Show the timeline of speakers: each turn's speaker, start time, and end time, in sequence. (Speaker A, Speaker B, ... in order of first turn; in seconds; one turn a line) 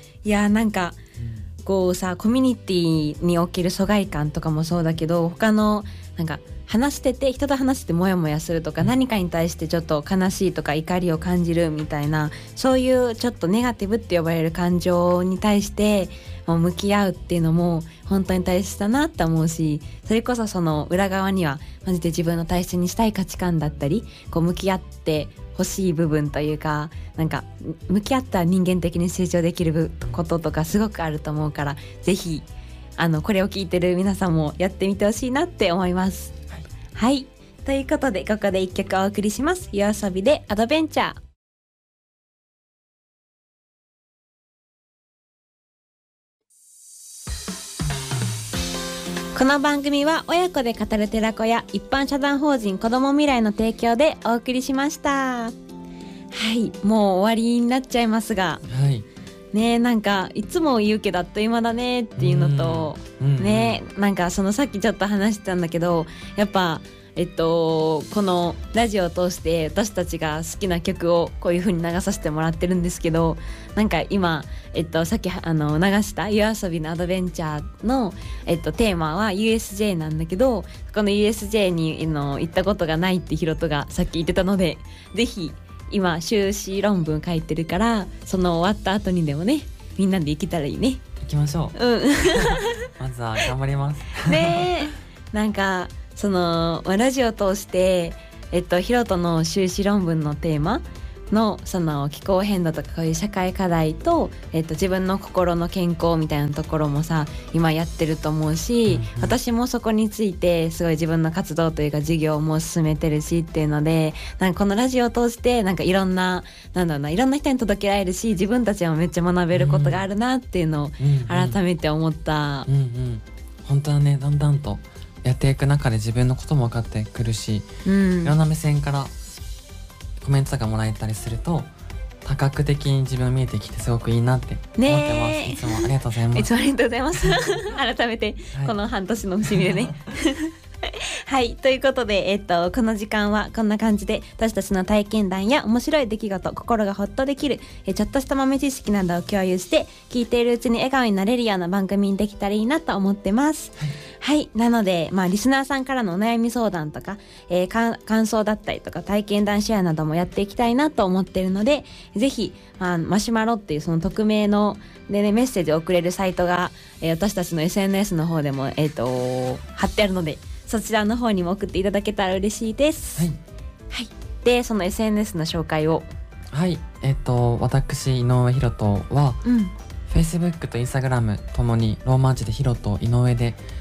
Speaker A: 0.2-1.0
Speaker B: 1.2-1.4
Speaker A: 1.6-32.5
Speaker A: 33.0-36.3
Speaker A: 36.9-41.2
Speaker A: 49.3-55.5
Speaker A: 56.3-58.6
Speaker B: 58.6-59.0
Speaker A: 59.5-91.0
Speaker B: 62.2-63.8
Speaker B: 91.2-94.9
Speaker A: 91.7-92.8
Speaker A: 94.2-122.7
Speaker B: 108.9-109.4
Speaker B: 119.5-120.0
Speaker B: 121.0-121.6
Speaker B: 122.7-127.7
Speaker A: 127.8-128.4
Speaker B: 128.2-129.1
Speaker B: 130.2-131.7
Speaker B: 132.2-136.5
Speaker A: 134.8-173.3
Speaker B: 137.2-137.5
Speaker B: 139.5-139.8
Speaker A: 173.9-176.1
Speaker B: 176.5-179.4
Speaker A: 179.4-179.7
Speaker B: 180.1-183.6